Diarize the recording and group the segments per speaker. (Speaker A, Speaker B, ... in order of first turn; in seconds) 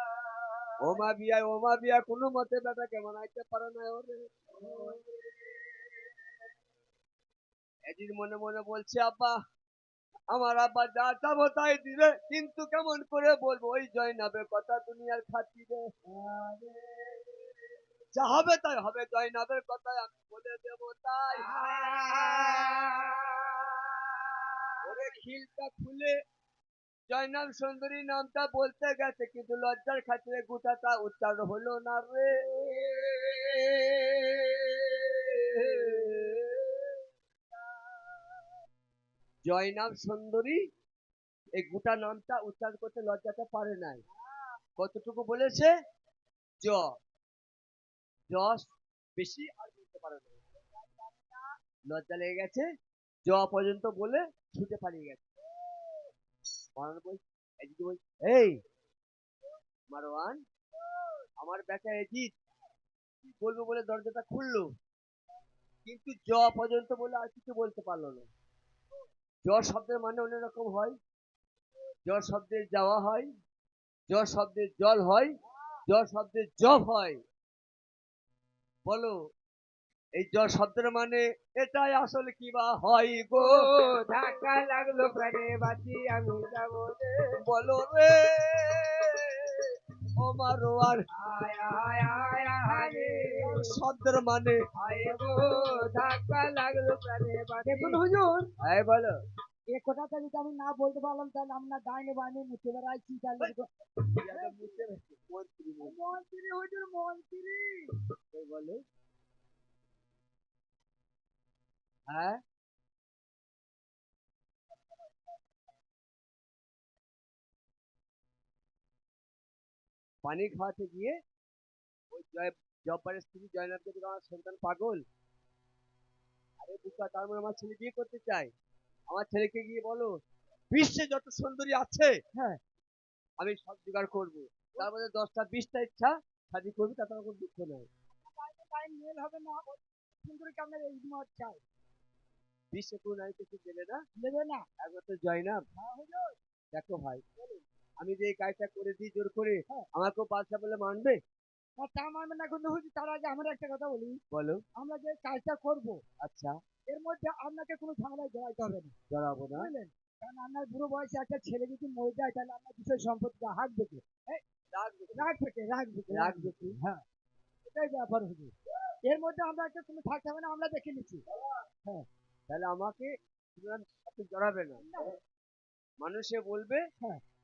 Speaker A: 0.8-4.2, 7.9-9.3, 10.3-15.9, 18.1-21.4, 24.8-26.1, 27.1-32.5, 35.6-36.4, 39.5-40.6, 41.5-44.0, 44.8-45.7, 46.6-46.9, 48.3-50.4, 51.9-52.7, 53.2-55.2, 56.8-58.6, 59.9-60.4, 61.4-62.3, 63.2-64.7, 65.8-68.3, 69.4-71.0, 72.1-73.3, 74.1-75.3, 75.9-77.2, 78.8-79.2, 80.2-83.6, 87.4-91.0, 93.5-94.6, 98.6-99.1, 104.1-106.0, 108.3-108.8, 112.1-112.4, 120.2-121.2, 122.1-125.0, 126.6-128.5, 129.1-130.1, 130.7-132.1, 133.4-137.9, 142.7-144.0, 144.8-145.6, 146.7-147.3, 148.0-151.2, 154.3-154.6, 156.2-156.6, 159.1-159.7, 164.7-165.3, 166.1-166.8, 172.5-174.8, 176.0-176.8
Speaker B: 4.6-5.6, 21.4-23.8, 32.6-36.0, 83.3-87.3, 91.1-93.6, 94.8-98.0
Speaker C: 16.1-16.8, 21.5-22.7, 44.2-44.5, 50.7-51.4, 92.7-93.7, 97.7-98.5, 99.7-103.7, 104.2-104.8, 105.8-108.0, 132.3-132.6, 138.1-141.6, 144.2-144.7, 145.8-146.3, 151.8-154.2, 154.8-156.0, 156.9-158.9, 159.5-164.4, 165.1-167.0, 167.7-168.5, 169.0-171.2, 174.8-175.2